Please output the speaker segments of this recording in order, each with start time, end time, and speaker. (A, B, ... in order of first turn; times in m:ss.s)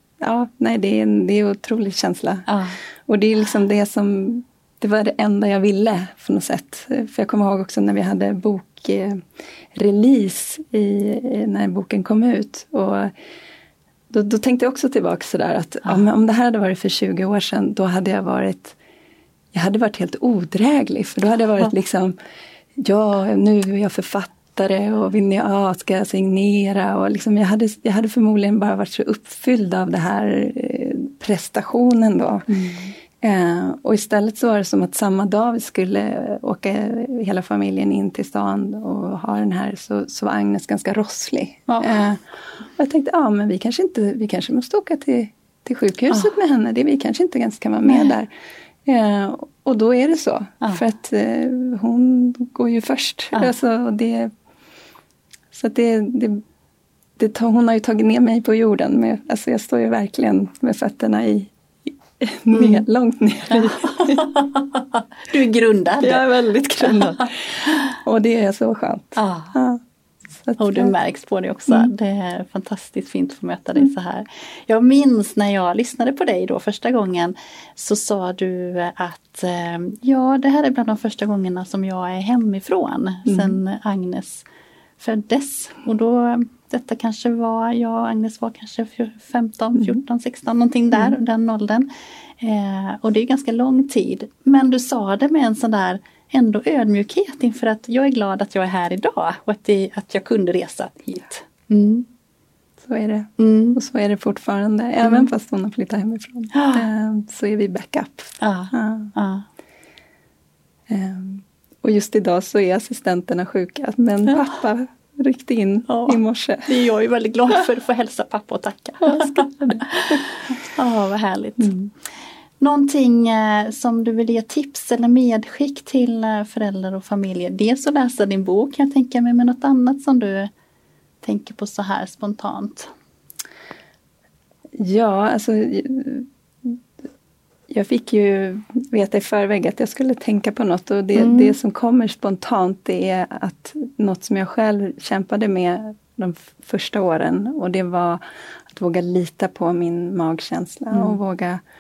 0:00.2-0:02.5 A
0:02.5-0:02.8 B
0:03.0-0:13.1 A
0:14.1-0:18.8 A
0:19.5-0:22.2 A
0:22.8-0:32.5 A
0:32.5-0:32.9 B
0:33.2-0:48.3 A
0:41.7-0:42.0 B
0:47.8-0:48.1 B
0:48.8-0:54.3 A
0:55.5-0:56.4 A
0:57.2-1:01.5 A
1:02.2-1:04.3 A
1:02.6-1:02.8 B
1:03.5-1:06.3 B
1:06.0-1:09.8 A
1:06.8-1:07.3 B
1:09.2-1:09.6 B
1:10.4-1:10.9 A
1:10.6-1:24.4 B
1:23.3-1:23.6 A
1:25.0-1:42.1 B
1:42.8-1:49.1 A
1:43.4-1:43.8 B
1:46.5-1:46.9 B
1:48.4-1:49.4 B
1:50.9-1:56.7 A
1:55.9-2:01.9 B
1:59.0-2:00.2 A
2:02.6-2:10.5 B
2:11.2-2:12.9 B
2:14.8-2:16.8 A
2:17.7-2:31.6 A
2:21.2-2:21.6 B
2:30.9-2:31.2 B